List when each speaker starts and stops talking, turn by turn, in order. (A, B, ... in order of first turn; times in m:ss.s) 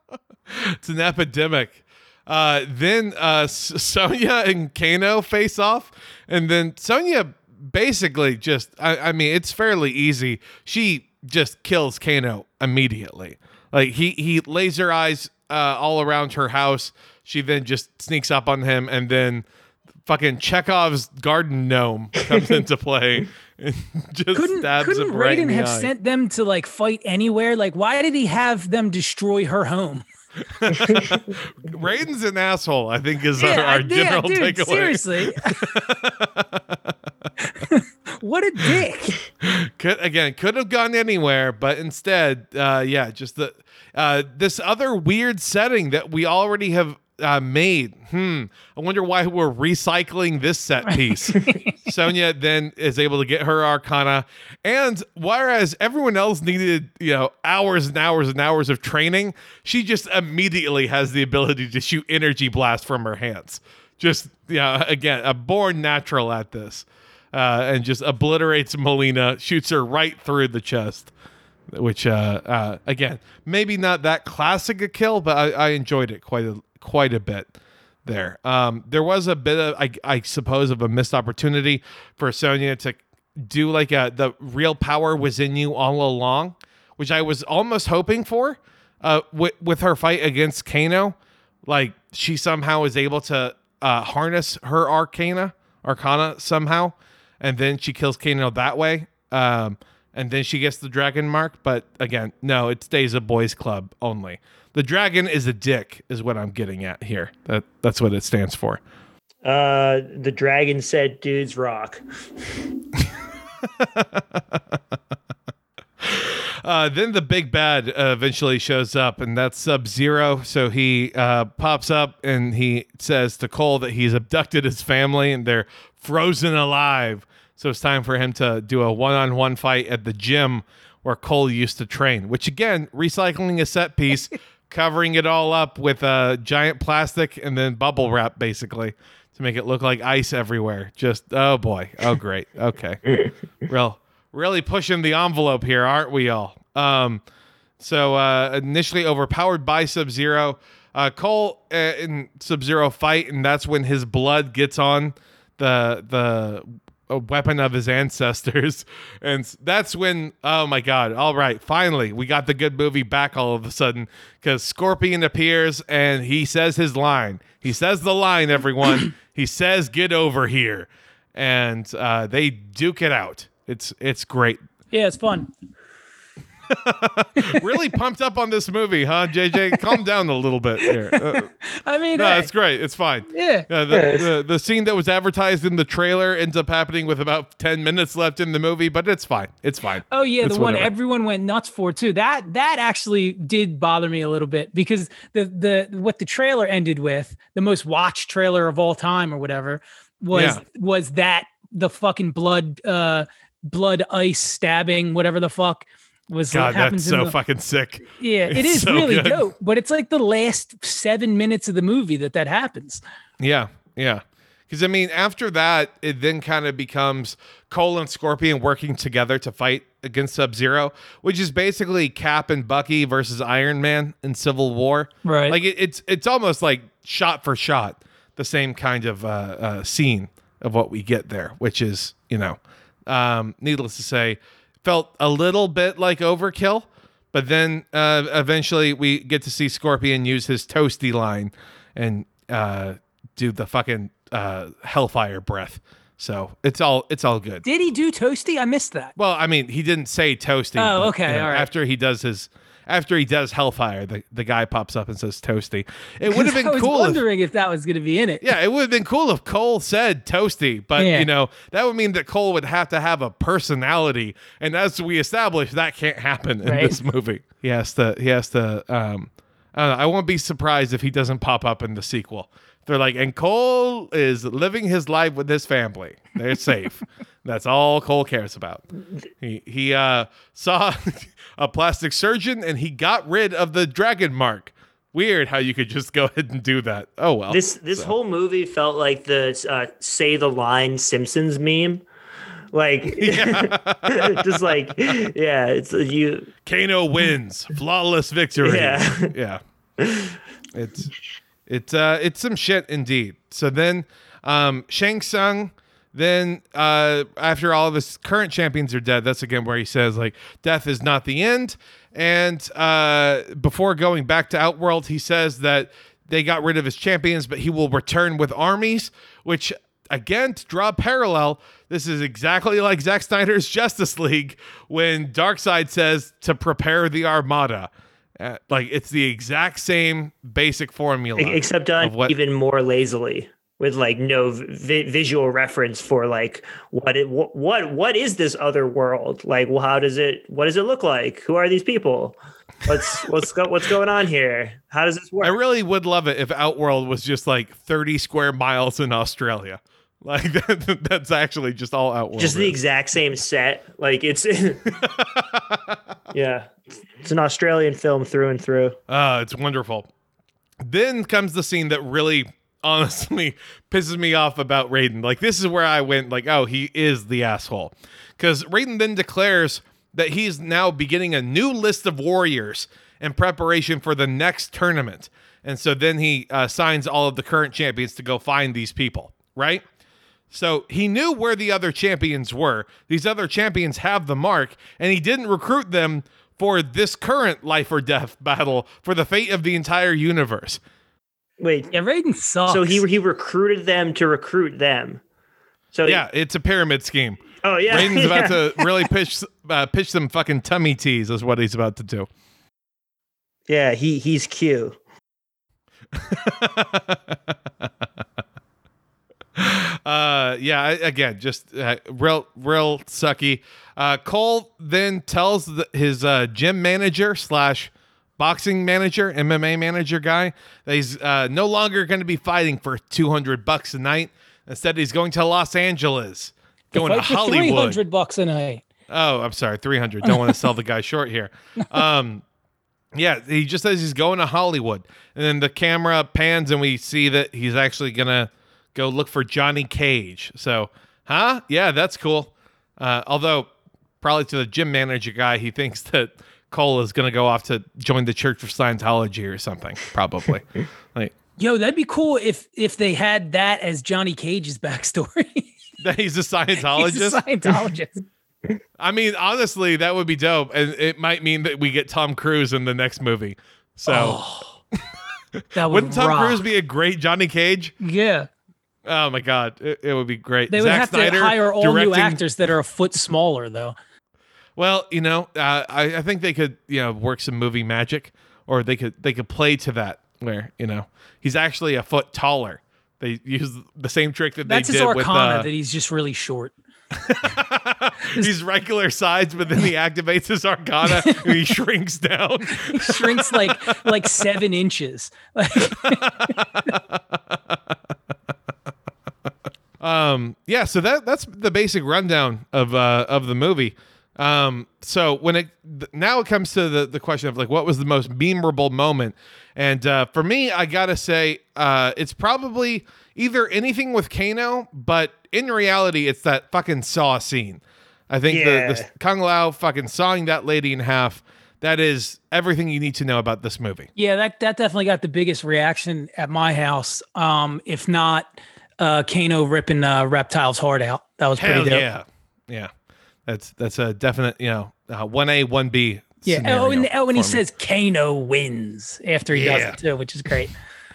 0:00.5-0:19.4 A
0:20.1-0:25.9 A
0:24.3-0:30.0 B
0:30.6-0:36.9 A
0:33.4-0:35.6 B
0:37.4-0:39.2 B
0:39.4-1:11.1 A
0:51.4-0:51.7 B
1:11.7-1:17.5 A
1:18.0-1:48.8 A
1:49.4-1:52.0 C
1:53.8-1:54.6 A
1:56.0-2:23.1 A
2:23.7-2:27.2 A
2:27.8-2:54.6 A
2:54.9-2:55.5 B
2:56.7-3:01.5 A
2:57.4-2:57.6 B
3:01.7-3:02.5 B
3:02.2-3:10.9 A
3:03.3-3:03.7 B
3:03.9-3:04.3 C
3:10.1-3:27.4 B
3:20.3-3:20.6 A
3:26.5-3:29.5 A
3:28.2-3:33.0 B
3:33.4-4:07.6 A
3:45.2-3:45.6 B
4:07.6-4:09.1 B
4:09.2-4:17.2 A
4:10.8-4:11.7 B
4:16.3-4:18.5 B
4:18.4-4:38.8 A
4:21.0-4:21.3 B
4:26.6-4:27.0 B
4:39.4-4:48.1 A
4:47.5-4:52.0 C
4:52.7-4:56.5 C
4:53.2-4:55.2 A
4:56.6-4:59.6 A
4:58.6-4:59.3 C
5:00.0-5:00.4 C
5:00.7-5:01.1 A
5:01.7-5:32.3 A
5:31.4-5:45.5 C
5:45.4-5:52.8 A
5:52.4-5:55.0 C
5:55.0-5:56.0 A
5:56.3-5:59.0 C
5:59.1-6:00.1 A
6:00.8-6:19.8 A
6:20.5-6:30.8 A
6:31.6-6:31.9 C
6:31.9-6:33.0 B
6:32.7-6:35.2 C
6:35.9-6:36.2 C
6:36.1-6:42.3 A
6:37.6-6:39.1 C
6:43.7-6:45.0 C
6:46.1-6:47.9 A
6:49.6-7:08.0 A
7:06.9-7:08.8 B
7:09.1-7:12.4 A
7:13.2-7:31.3 A
7:31.6-7:35.7 B
7:36.0-7:37.4 A
7:36.8-7:38.2 B
7:39.0-7:44.4 A
7:44.1-7:44.8 B
7:45.8-7:46.6 B
7:45.8-7:47.9 A
7:48.0-7:48.5 B
7:49.0-7:52.4 A
7:50.7-7:54.0 B
7:54.8-8:05.7 A
8:04.7-8:06.7 B
8:07.2-8:14.1 A
8:11.1-8:11.5 B
8:12.7-8:16.5 B
8:15.9-8:17.8 A
8:20.0-8:44.1 A
8:38.5-8:39.1 C
8:44.2-8:52.1 B
8:51.6-8:52.9 A
8:53.5-8:57.6 A
8:56.4-9:00.7 B
8:59.5-9:00.0 A